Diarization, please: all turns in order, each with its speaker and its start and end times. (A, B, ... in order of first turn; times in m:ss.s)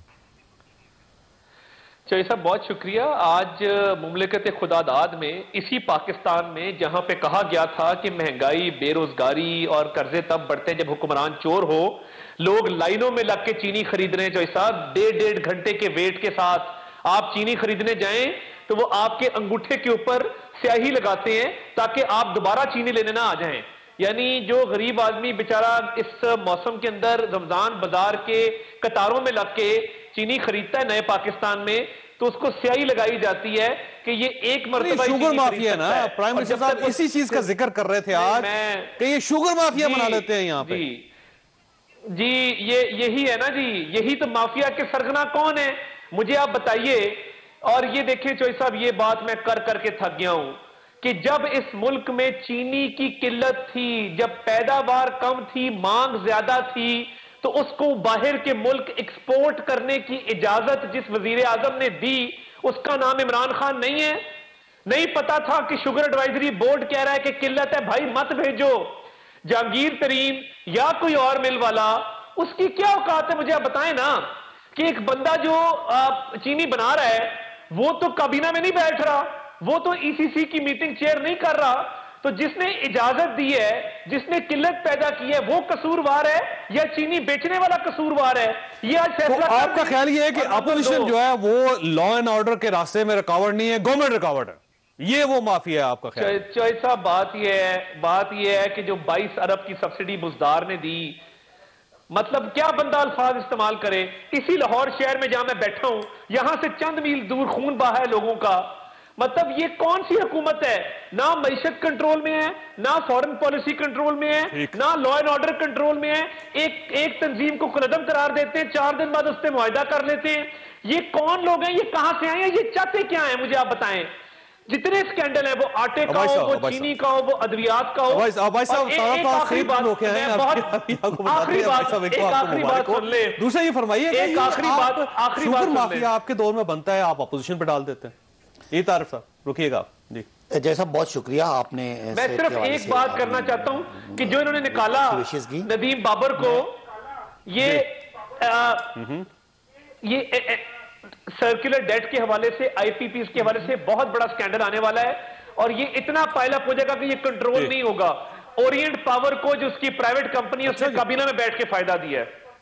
0:02.1-0:37.5 A
0:34.8-0:40.8 B
0:38.1-0:39.0 A
0:39.7-0:41.1 A
0:42.1-1:04.2 A
1:04.9-1:31.1 A
1:29.2-1:36.4 B
1:36.2-1:41.2 A
1:42.1-2:04.1 A
1:54.5-1:54.8 B
2:04.7-2:13.4 A
2:06.1-2:06.9 B
2:08.1-2:18.1 B
2:14.1-2:16.1 A
2:18.7-2:20.2 B
2:20.5-2:25.7 C
2:22.1-2:26.8 A
2:27.5-2:29.0 A
2:27.6-2:27.8 B
2:28.9-2:29.3 B
2:30.0-2:30.7 A
2:31.3-2:42.3 A
2:40.6-2:41.0 B